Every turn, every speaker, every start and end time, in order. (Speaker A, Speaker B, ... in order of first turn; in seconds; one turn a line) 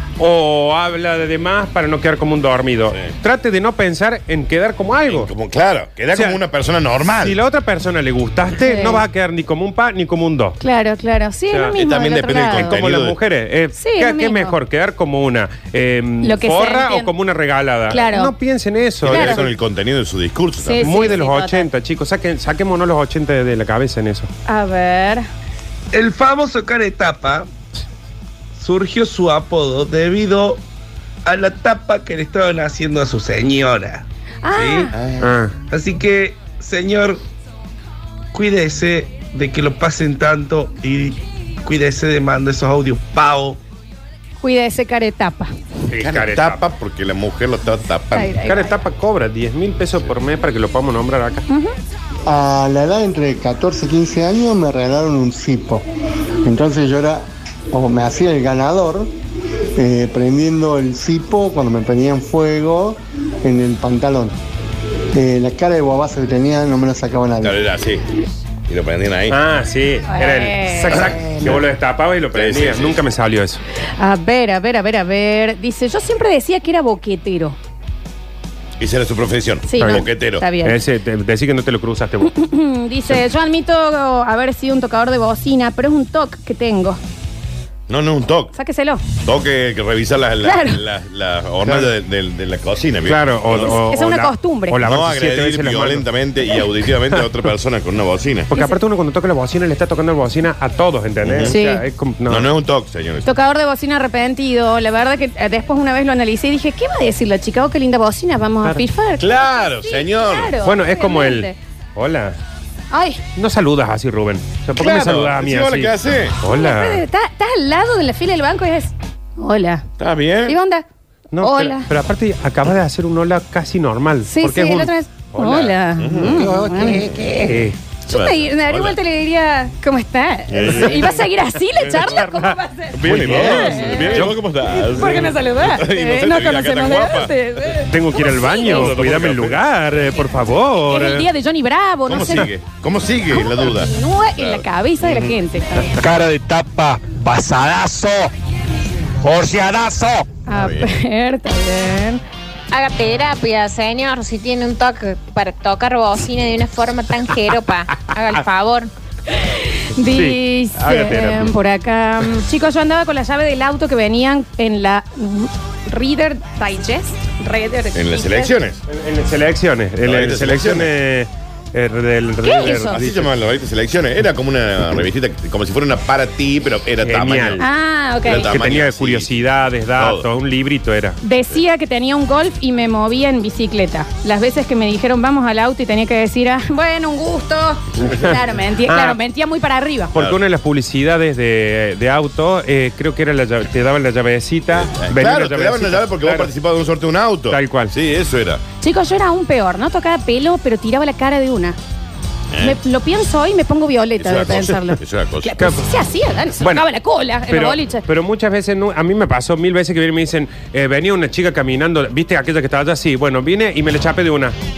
Speaker A: 0.2-5.3
Speaker B: 5.1-7.4
Speaker A: 6.1-6.4
Speaker A: 7.1-10.6
Speaker C: 8.6-9.0
Speaker C: 10.6-12.8
Speaker B: 11.8-13.2
Speaker A: 12.5-19.4
Speaker C: 13.8-14.6
Speaker C: 16.2-17.1
Speaker C: 17.9-18.3
Speaker B: 19.0-20.9
Speaker C: 19.1-19.4
Speaker C: 20.6-21.7
Speaker A: 20.8-24.3
Speaker C: 24.5-25.3
Speaker D: 25.9-27.5
Speaker D: 28.6-30.6
Speaker D: 31.2-37.2
Speaker C: 34.4-35.0
Speaker A: 35.2-35.5
Speaker D: 38.3-43.6
Speaker C: 44.4-45.5
Speaker A: 45.9-46.6
Speaker B: 46.0-48.4
Speaker C: 48.1-48.7
Speaker A: 48.4-51.5
Speaker C: 51.5-51.7
Speaker E: 52.3-55.8
Speaker E: 56.4-59.1
Speaker E: 59.8-64.3
Speaker E: 65.1-67.6
Speaker B: 67.4-68.0
Speaker B: 68.7-69.4
Speaker A: 69.3-73.6
Speaker C: 70.1-71.5
Speaker B: 70.9-71.6
Speaker B: 72.3-73.0
Speaker C: 74.0-77.6
Speaker B: 78.8-80.5
Speaker C: 79.7-80.8
Speaker A: 80.6-82.4
Speaker C: 82.2-87.0
Speaker B: 87.9-88.5
Speaker C: 88.5-89.0
Speaker B: 89.2-93.8
Speaker C: 90.4-90.8
Speaker A: 91.7-91.9
Speaker A: 93.0-96.1
Speaker C: 93.8-94.8
Speaker B: 94.8-98.5
Speaker A: 97.1-97.4
Speaker A: 98.5-102.5
Speaker B: 101.2-101.5
Speaker C: 101.5-101.8
Speaker B: 102.3-103.3
Speaker C: 103.2-111.5
Speaker B: 109.2-110.5
Speaker A: 110.6-112.4
Speaker C: 112.9-113.2
Speaker A: 113.4-117.0
Speaker B: 114.7-116.3
Speaker C: 116.4-119.9
Speaker B: 120.0-120.6
Speaker C: 120.5-120.8
Speaker A: 121.3-127.8
Speaker C: 121.4-121.9
Speaker C: 124.3-138.9
Speaker B: 126.0-127.3
Speaker B: 128.1-129.0
Speaker B: 130.5-131.1
Speaker A: 130.6-131.2
Speaker B: 131.8-132.2
Speaker A: 132.0-134.4
Speaker B: 132.9-137.8
Speaker A: 137.9-141.3
Speaker B: 138.6-139.6
Speaker C: 140.8-142.5
Speaker B: 142.1-145.4
Speaker C: 143.3-146.0
Speaker F: 146.0-148.3
Speaker F: 149.2-150.3
Speaker C: 150.5-152.2
Speaker B: 150.5-150.9
Speaker G: 152.7-158.9
Speaker C: 159.3-168.6
Speaker A: 160.1-161.5
Speaker B: 167.9-168.8
Speaker A: 168.9-173.3
Speaker B: 170.0-170.9
Speaker C: 172.4-173.0
Speaker B: 172.6-177.6
Speaker A: 177.0-177.7
Speaker C: 177.6-178.5
Speaker B: 178.2-180.3
Speaker A: 178.3-181.2
Speaker C: 181.2-190.1
Speaker A: 188.1-189.2
Speaker B: 190.1-190.4
Speaker A: 190.1-196.5
Speaker B: 194.7-198.6
Speaker A: 197.5-197.9
Speaker C: 198.8-201.8
Speaker B: 202.5-202.8
Speaker C: 202.6-208.0
Speaker B: 204.2-205.7
Speaker A: 207.5-214.6